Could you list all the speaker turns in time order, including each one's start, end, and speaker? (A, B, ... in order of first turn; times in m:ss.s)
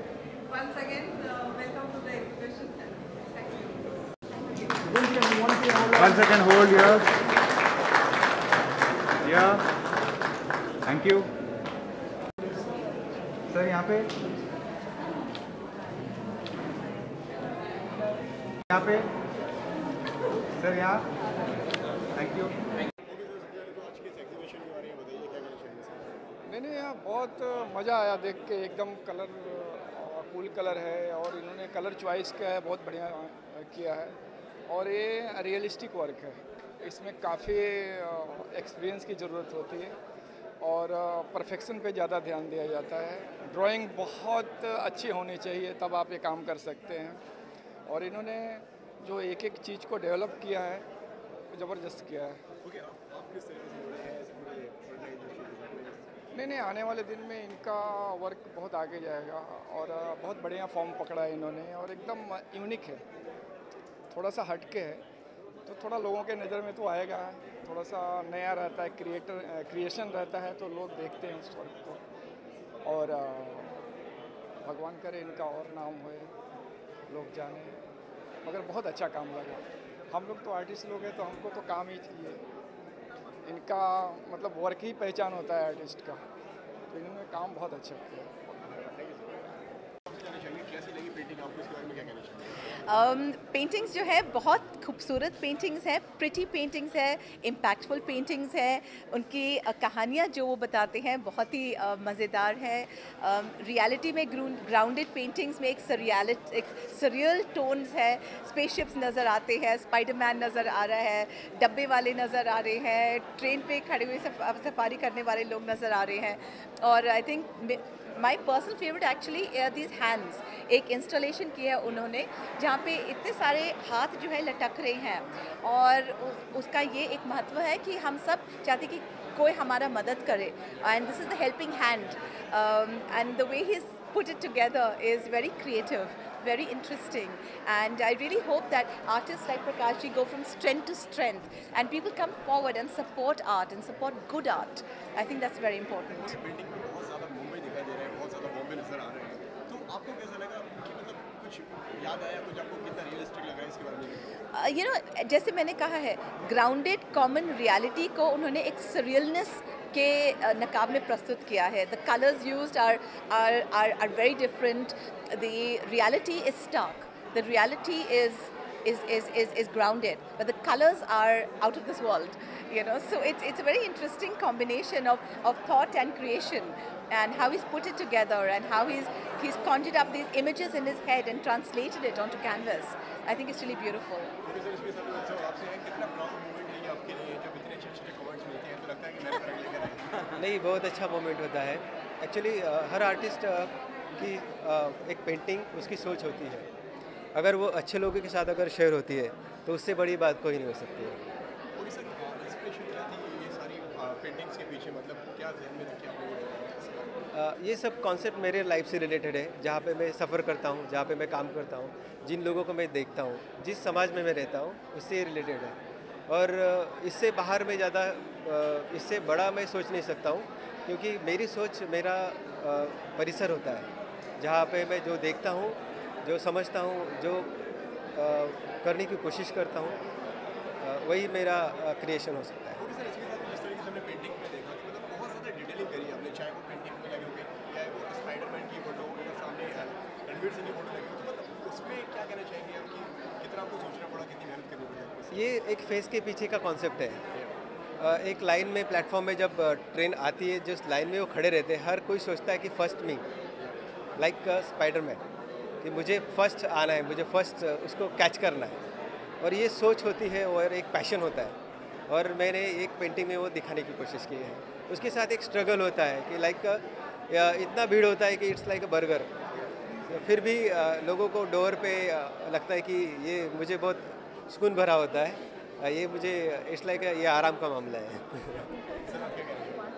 0:00.4-0:04.8 A
0:04.9-0:07.1 B
0:09.2-0:09.7 B
0:10.8-0:11.3 B
0:13.5-0:14.1 B
0:18.7-0:19.1 B
0:20.5-0:21.1 B
0:22.1-0:22.6 B
0:23.0-0:26.2 C
0:26.5-0:34.2 D
0:34.7-0:39.9 D
0:40.6-0:47.2 D
0:47.9-0:50.8 D
0:51.5-0:52.4 D
0:52.6-0:56.3 C
0:56.4-1:03.0 D
1:04.1-1:05.0 D
1:05.7-1:12.0 D
1:12.8-1:13.7 D
1:14.6-1:16.3 D
1:17.1-1:17.8 D
1:18.4-1:22.4 D
1:23.4-1:26.2 D
1:26.9-1:28.3 D
1:28.4-1:32.5 C
1:32.9-2:26.3 E
2:26.2-2:34.3 C
2:34.5-3:04.3 E
3:04.4-3:10.3 C
3:10.3-3:16.7 F
3:17.3-3:21.2 F
3:21.7-3:27.2 C
3:27.3-3:35.8 F
3:36.3-3:43.9 F
3:44.4-3:47.5 F
3:48.1-3:50.0 F
3:50.8-3:52.8 F
3:52.8-4:05.5 C
4:05.3-4:07.2 F
4:08.0-4:13.2 F
4:13.6-4:13.9 C
4:14.2-4:15.2 F
4:15.8-4:18.8 F
4:19.4-4:21.6 F
4:22.1-4:29.3 F
4:30.1-4:38.7 F
4:39.0-4:39.8 C